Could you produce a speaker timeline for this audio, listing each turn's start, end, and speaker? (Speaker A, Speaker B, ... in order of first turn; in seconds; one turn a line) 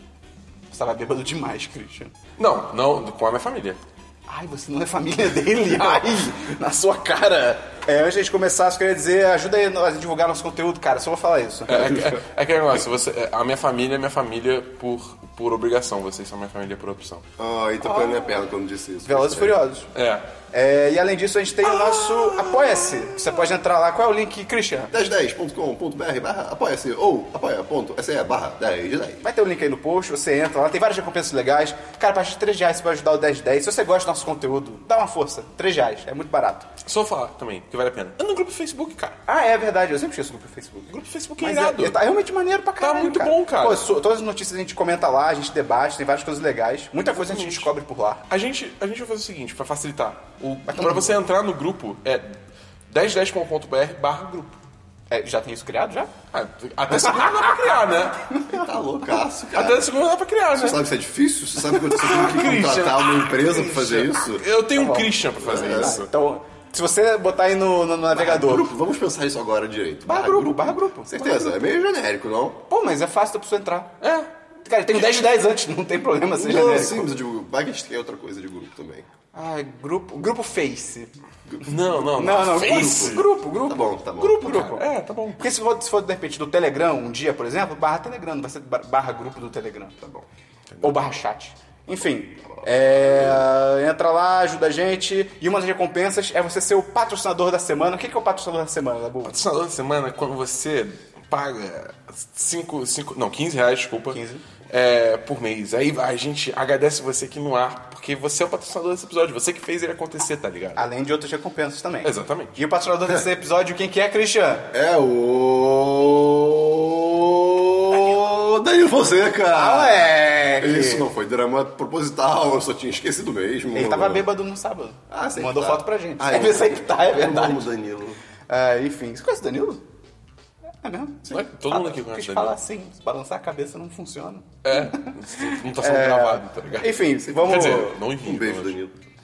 Speaker A: 0.7-2.1
Speaker B: 2.4-3.8
Speaker A: 4.3-12.1
Speaker B: 5.7-6.3
Speaker B: 11.7-17.2
Speaker C: 11.9-12.2
Speaker C: 17.4-19.6
Speaker A: 17.8-18.3
Speaker A: 19.1-19.9
Speaker B: 19.9-20.3
Speaker A: 20.5-24.9
Speaker C: 21.6-23.4
Speaker C: 24.9-29.2
Speaker A: 29.2-36.7
Speaker B: 36.8-39.2
Speaker A: 39.3-48.2
Speaker B: 40.9-42.0
Speaker B: 42.8-43.9
Speaker B: 47.1-47.7
Speaker B: 48.3-52.4
Speaker A: 50.7-51.2
Speaker B: 52.9-54.6
Speaker A: 55.1-56.1
Speaker B: 56.3-58.4
Speaker A: 56.9-57.8
Speaker C: 58.5-60.0
Speaker B: 59.5-60.8
Speaker C: 60.5-64.5
Speaker A: 61.9-62.5
Speaker B: 62.0-66.1
Speaker A: 63.4-64.1
Speaker A: 64.7-68.7
Speaker C: 65.4-66.0
Speaker C: 68.1-72.6
Speaker A: 70.1-71.6
Speaker A: 72.7-73.9
Speaker B: 74.0-74.3
Speaker A: 74.7-77.1
Speaker C: 76.3-79.1
Speaker A: 79.3-81.1
Speaker C: 81.5-84.5
Speaker B: 81.6-83.3
Speaker A: 82.1-90.0
Speaker B: 84.4-85.4
Speaker C: 90.0-90.3
Speaker B: 90.7-91.2
Speaker A: 90.8-99.3
Speaker C: 92.5-93.5
Speaker B: 99.2-110.9
Speaker A: 104.1-104.4
Speaker A: 110.8-114.7
Speaker B: 112.0-112.6
Speaker C: 114.7-124.3
Speaker A: 119.5-121.1
Speaker A: 123.7-127.7
Speaker C: 125.1-128.2
Speaker A: 128.5-129.8
Speaker A: 130.8-138.0
Speaker B: 131.3-132.6
Speaker B: 134.6-138.8
Speaker C: 137.3-138.9